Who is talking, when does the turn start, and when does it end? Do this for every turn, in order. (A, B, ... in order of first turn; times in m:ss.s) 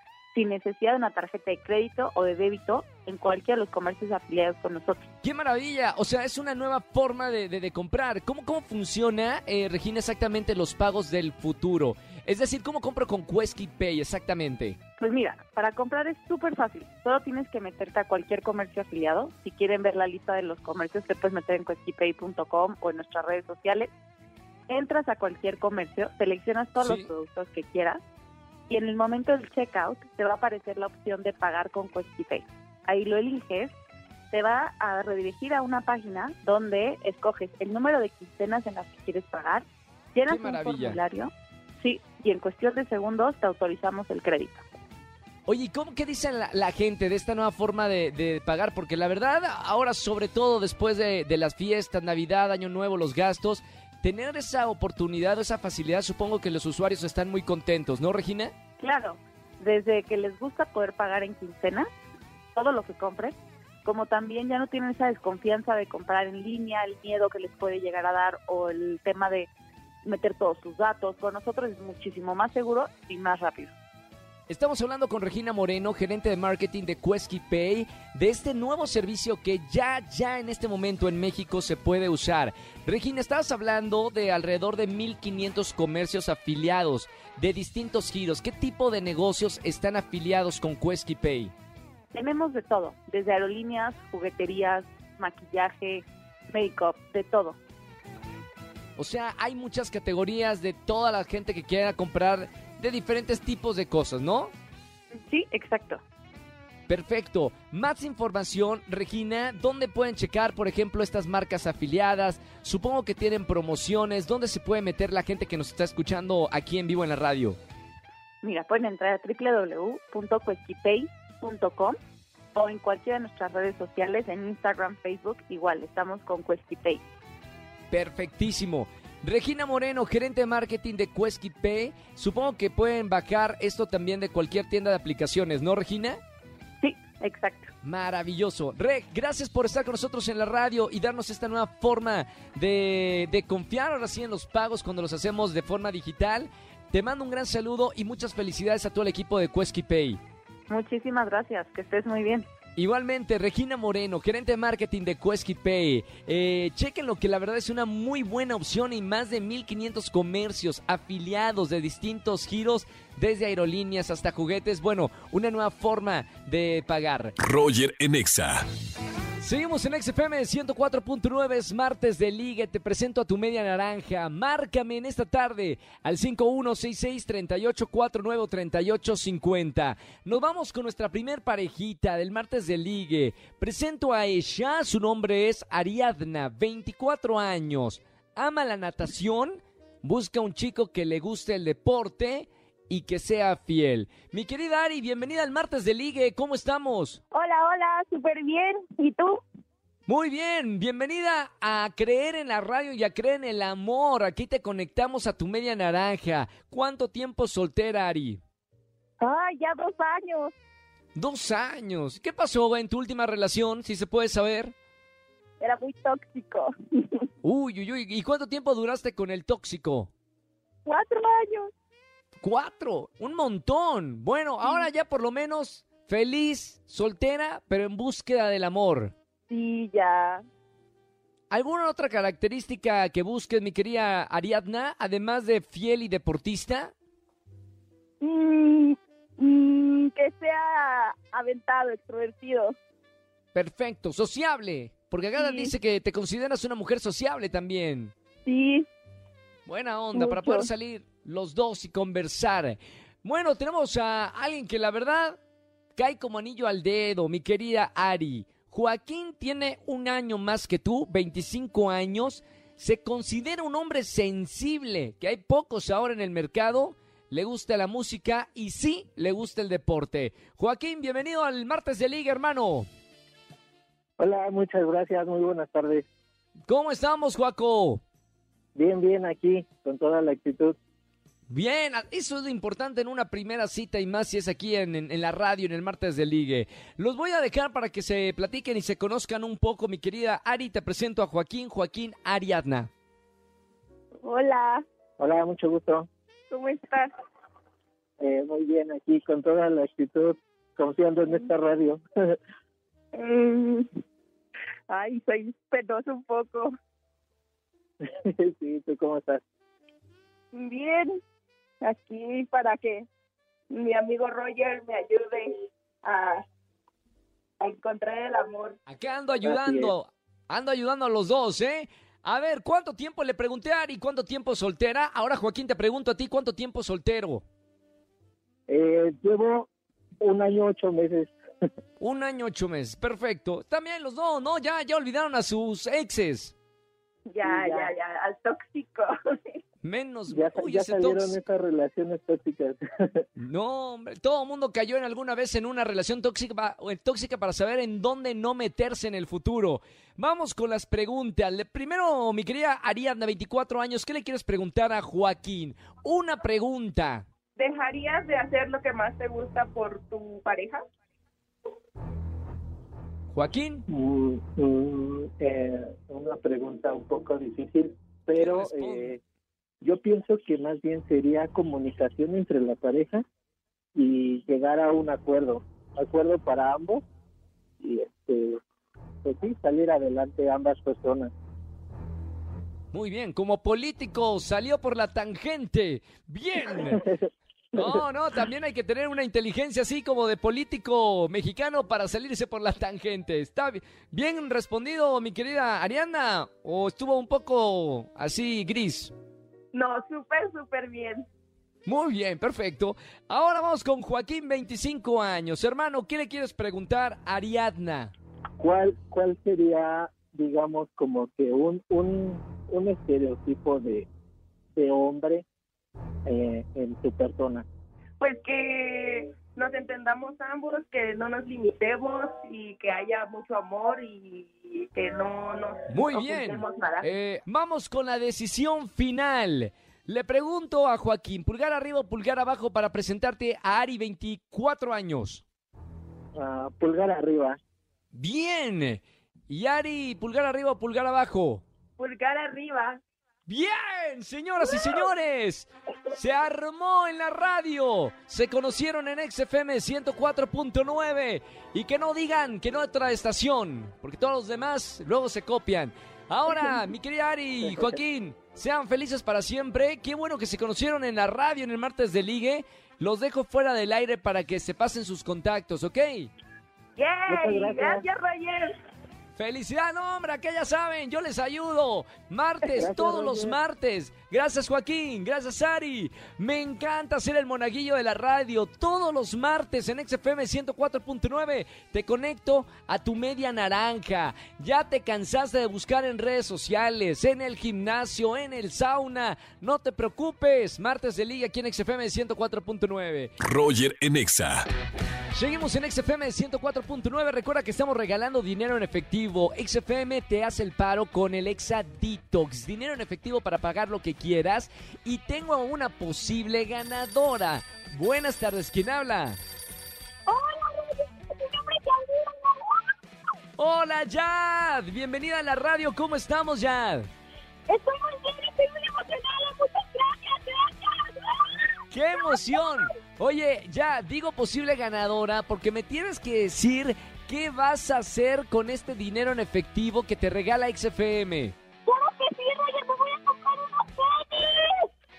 0:00.3-0:05.0 A
0:05.2-0:14.8 B
0:15.0-0:23.9 A
0:24.7-0:28.0 A
0:26.8-0:27.1 B
0:28.7-0:33.7 A
0:34.3-0:44.6 A
0:40.3-0:41.0 B
0:45.5-0:58.5 B
0:58.8-1:01.9 A
1:02.5-1:09.5 A
1:10.0-1:13.7 A
1:14.5-1:31.5 B
1:32.1-1:37.6 A
1:39.0-1:44.5 B
1:45.1-1:46.0 A
1:46.9-1:57.6 B
1:58.4-2:02.0 A
2:02.5-2:07.0 A
2:07.9-2:16.2 B
2:16.8-2:17.7 A
2:17.8-2:30.2 B
2:30.7-2:32.5 A
2:32.8-2:47.3 B
2:47.4-2:48.6 C
2:49.4-3:17.2 B
3:17.3-3:19.4 D
3:20.1-3:28.4 B
3:29.2-3:30.5 D
3:31.2-3:34.7 B
3:35.6-3:37.2 D
3:37.4-3:40.1 B
3:40.8-3:41.7 D
3:42.4-3:49.1 B
3:49.5-3:50.4 D
3:51.5-3:56.9 B
3:58.2-4:02.7 D
4:03.5-4:08.1 B
4:05.4-4:05.7 D
4:08.4-4:08.9 D
4:09.6-4:15.4 B
4:10.1-4:10.7 D
4:16.0-4:32.9 B
4:34.2-4:36.0 E
4:36.7-4:38.0 B
4:38.7-4:40.8 E
4:41.5-4:52.9 B
4:54.2-4:54.8 D
4:55.2-4:56.1 E
4:56.5-4:57.1 D
4:58.2-5:02.3 E
5:03.1-5:03.9 D
5:04.9-5:06.7 D
5:08.0-5:09.4 E
5:10.5-5:11.2 D
5:11.8-5:13.1 D
5:13.7-5:15.5 D
5:16.0-5:16.4 D
5:17.6-5:18.8 D
5:18.9-5:27.4 B
5:19.4-5:19.9 E
5:28.7-5:29.7 E
5:30.2-5:31.3 E
5:32.0-5:36.5 B
5:37.3-5:39.6 D
5:37.4-5:37.9 E
5:39.8-5:41.4 B
5:40.3-5:43.2 E
5:43.4-5:57.2 B
5:57.6-6:00.8 D
6:03.3-6:03.8 B
6:03.9-6:09.2 E
6:08.3-6:09.1 B
6:09.8-6:13.2 E
6:14.0-6:17.0 E
6:17.8-6:18.6 E
6:19.2-6:21.3 E
6:22.9-6:27.0 B
6:26.7-6:27.3 E
6:27.7-6:39.1 B
6:39.7-6:41.2 D
6:41.8-6:48.1 B
6:48.6-6:54.1 E
6:54.8-6:55.4 E
6:56.2-6:57.6 E
6:58.2-7:07.1 D
7:05.9-7:15.4 B
7:16.4-7:17.6 E
7:18.1-7:21.6 B
7:22.0-7:23.0 D
7:23.5-7:46.3 B
7:37.7-7:37.9 E
7:47.0-7:48.7 D
7:47.2-7:48.0 E
7:49.4-8:13.4 B
7:52.7-7:53.6 E
8:13.4-8:14.6 C
8:15.3-8:29.4 B
8:30.3-8:32.9 D
8:33.6-8:37.1 B
8:37.7-8:42.6 D
8:41.9-8:51.5 B
8:51.9-8:54.9 D